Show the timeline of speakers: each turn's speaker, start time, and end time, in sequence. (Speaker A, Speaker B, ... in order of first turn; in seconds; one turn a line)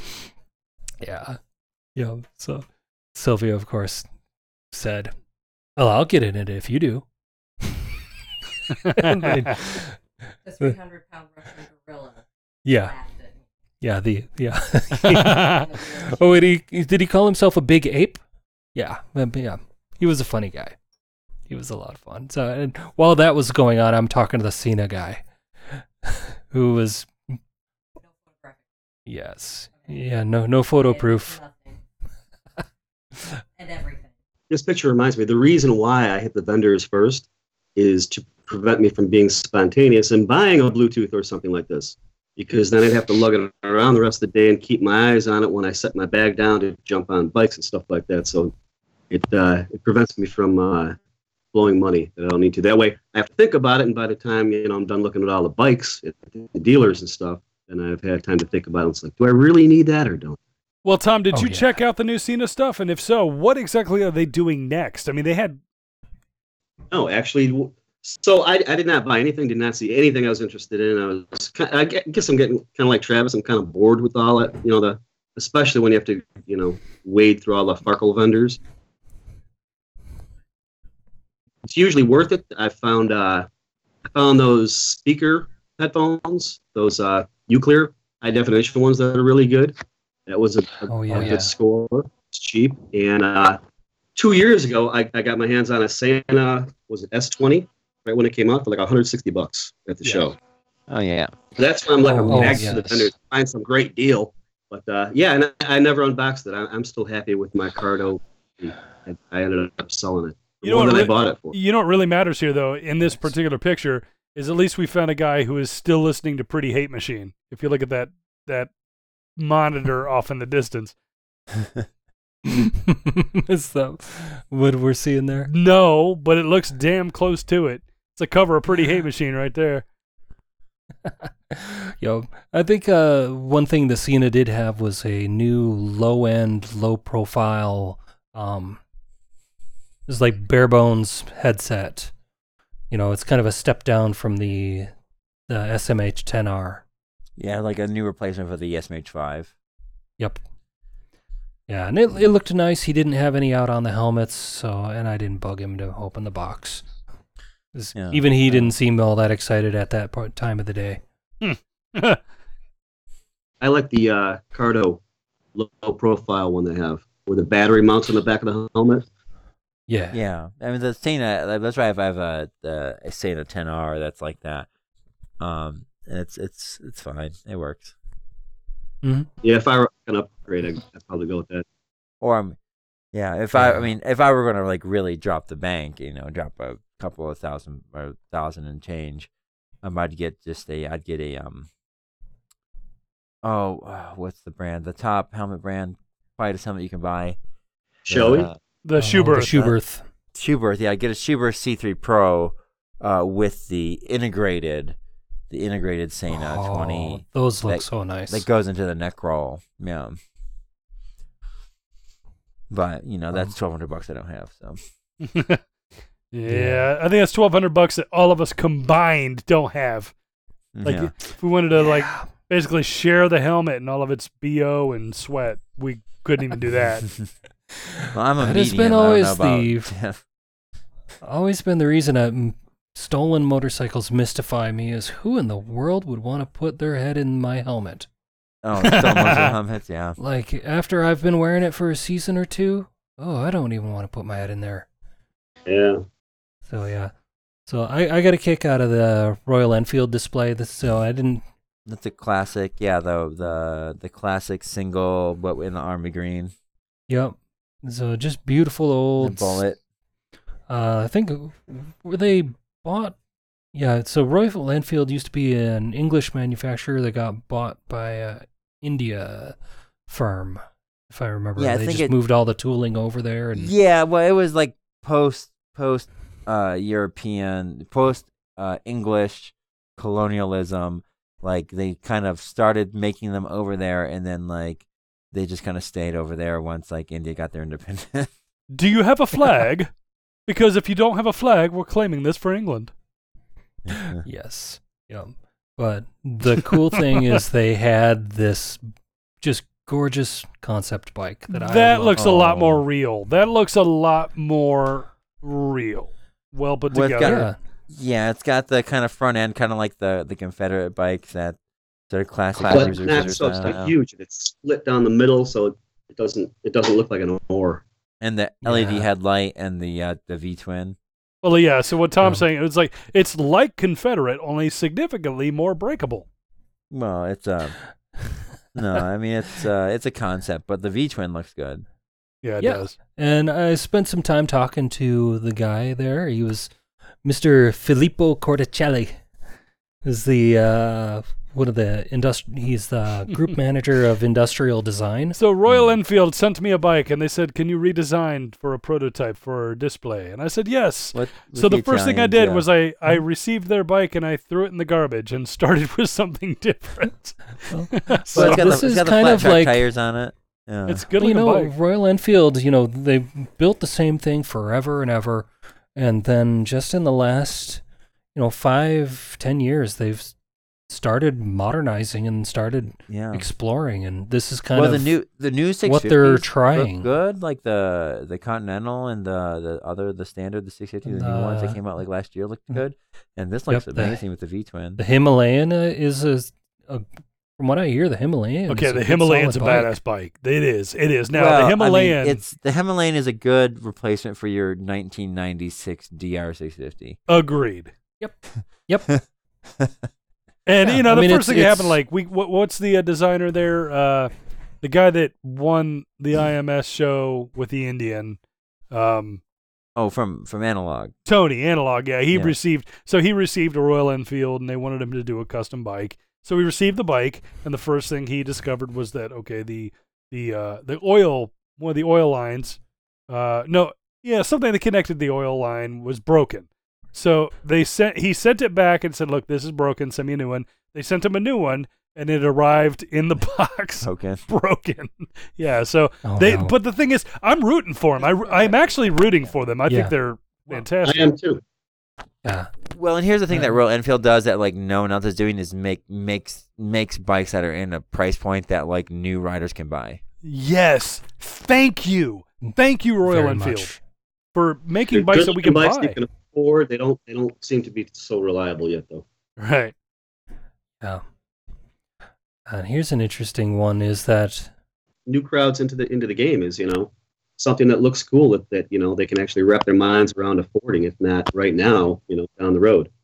Speaker A: 1.0-1.4
Speaker A: 1.9-4.1
Speaker A: 4.7-5.1
Speaker A: 5.8-7.0
Speaker A: 8.8-9.9
Speaker B: 9.0-9.5
Speaker C: 10.4-13.4
Speaker A: 12.6-12.9
Speaker A: 13.8-18.2
Speaker B: 15.0-15.7
Speaker C: 15.5-16.5
Speaker A: 18.7-20.7
Speaker A: 21.5-25.2
Speaker A: 25.8-27.1
Speaker C: 28.0-28.6
Speaker A: 29.1-31.4
Speaker C: 29.7-30.0
Speaker C: 30.7-31.8
Speaker C: 33.6-34.1
Speaker D: 34.5-48.5
Speaker D: 49.1-51.0
Speaker D: 51.5-60.4
Speaker B: 60.8-65.6
Speaker A: 61.3-61.7
Speaker D: 66.9-78.6
Speaker D: 81.7-83.5
Speaker D: 84.1-93.6
Speaker A: 90.9-91.5
Speaker D: 94.2-100.4
Speaker E: 100.9-101.3
Speaker D: 101.5-111.5
Speaker A: 102.0-103.1
Speaker B: 110.6-118.7
Speaker B: 119.4-120.9
Speaker A: 122.5-125.5
Speaker B: 125.5-129.8
Speaker A: 131.1-138.8
Speaker A: 140.1-142.1
Speaker A: 142.9-144.9
Speaker A: 145.5-146.8
Speaker E: 147.4-149.5
Speaker A: 151.7-156.8
Speaker A: 157.7-161.0
Speaker E: 157.9-158.7
Speaker B: 161.4-162.2
Speaker D: 163.6-165.0
Speaker D: 165.5-169.0
Speaker A: 169.9-170.2
Speaker E: 170.1-174.7
Speaker E: 175.4-177.9
Speaker A: 179.0-179.3
Speaker D: 179.4-181.6
Speaker E: 182.2-182.6
Speaker E: 183.1-189.3
Speaker A: 183.5-183.8
Speaker E: 189.8-191.7
Speaker E: 193.4-197.4
Speaker D: 198.1-198.5
Speaker E: 198.1-198.6
Speaker B: 198.8-199.7
Speaker A: 199.0-200.0
Speaker E: 199.3-199.7
Speaker E: 200.3-205.0
Speaker E: 205.5-210.2
Speaker A: 206.3-208.4
Speaker E: 212.7-214.8
Speaker B: 215.2-215.6
Speaker B: 216.3-220.1
Speaker A: 216.5-216.9
Speaker E: 220.7-221.1
Speaker B: 220.8-227.1
Speaker A: 221.8-222.3
Speaker A: 227.8-229.9
Speaker E: 228.1-230.2
Speaker A: 231.2-238.1
Speaker E: 238.6-240.2
Speaker B: 238.8-239.6
Speaker A: 240.2-244.8
Speaker D: 245.7-246.0
Speaker A: 246.7-247.1
Speaker A: 247.7-251.4
Speaker E: 251.8-256.5
Speaker A: 257.1-259.6
Speaker E: 259.2-259.8
Speaker A: 260.7-263.1
Speaker A: 263.7-269.5
Speaker A: 270.1-273.7
Speaker E: 271.6-272.1
Speaker E: 273.6-288.3
Speaker B: 288.7-289.9
Speaker B: 290.5-292.9
Speaker E: 293.9-294.2
Speaker A: 293.9-298.8
Speaker B: 297.0-297.3
Speaker A: 299.4-302.8
Speaker B: 301.5-307.4
Speaker E: 306.9-311.6
Speaker A: 307.2-307.5
Speaker E: 312.1-313.9
Speaker D: 312.7-317.8
Speaker E: 318.2-321.0
Speaker A: 318.6-319.1
Speaker B: 321.4-326.2
Speaker E: 326.9-327.8
Speaker E: 328.7-331.8
Speaker B: 332.4-332.9
Speaker A: 332.6-336.7
Speaker A: 337.2-339.2
Speaker A: 340.0-345.4
Speaker B: 345.4-358.8
Speaker E: 345.7-346.0
Speaker E: 351.1-352.6
Speaker A: 357.7-359.8
Speaker E: 358.3-361.1
Speaker B: 360.9-361.7
Speaker A: 361.2-367.8
Speaker A: 368.3-370.3
Speaker A: 370.9-375.1
Speaker E: 373.0-373.4
Speaker E: 374.7-385.0
Speaker A: 375.8-377.1
Speaker A: 381.0-381.8
Speaker A: 383.7-384.2
Speaker A: 385.0-387.1
Speaker A: 387.6-389.9
Speaker B: 388.7-392.4
Speaker E: 391.3-397.2
Speaker B: 397.3-397.9
Speaker A: 398.2-399.1
Speaker B: 400.6-404.3
Speaker A: 400.8-402.0
Speaker B: 404.8-408.4
Speaker B: 408.9-409.4
Speaker E: 410.0-411.1
Speaker B: 411.2-422.8
Speaker E: 412.3-412.6
Speaker B: 423.3-441.3
Speaker E: 434.0-434.4
Speaker A: 436.2-436.7
Speaker A: 439.9-440.1
Speaker D: 441.0-441.6
Speaker A: 442.4-442.7
Speaker E: 442.9-450.2
Speaker A: 443.5-443.8
Speaker B: 450.4-453.9
Speaker A: 453.2-454.0
Speaker B: 454.5-456.2
Speaker D: 455.1-459.2
Speaker B: 459.6-459.9
Speaker A: 462.7-464.7
Speaker D: 465.3-473.1